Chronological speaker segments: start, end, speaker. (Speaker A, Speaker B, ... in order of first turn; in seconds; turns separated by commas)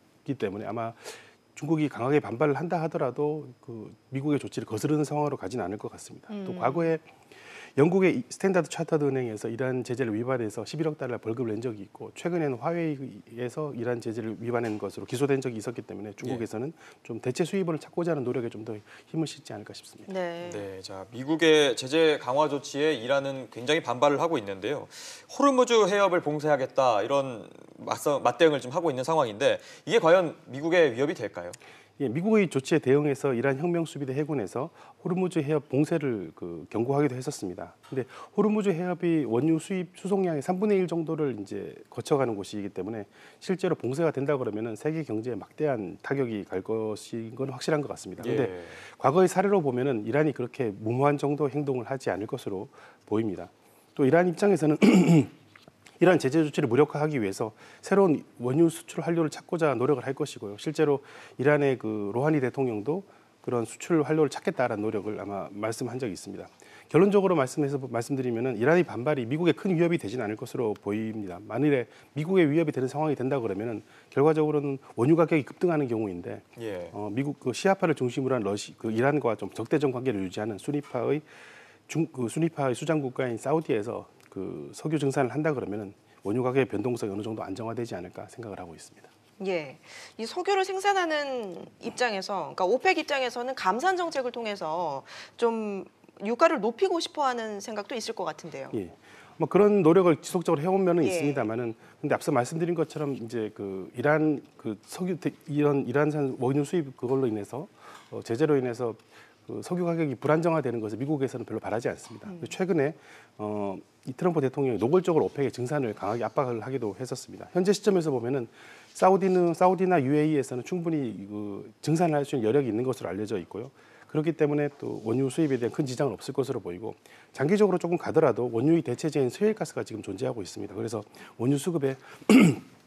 Speaker A: 0.2-7.0, Speaker B: 6.3-7.0, Speaker A: 7.8-20.1, Speaker B: 20.1-20.7, Speaker C: 20.4-31.6, Speaker A: 32.0-55.3, Speaker C: 48.2-48.8, Speaker A: 56.0-81.3, Speaker C: 76.6-77.0, Speaker A: 81.9-89.1, Speaker B: 89.4-98.8, Speaker A: 98.7-132.7, Speaker B: 101.0-101.5, Speaker B: 112.3-112.5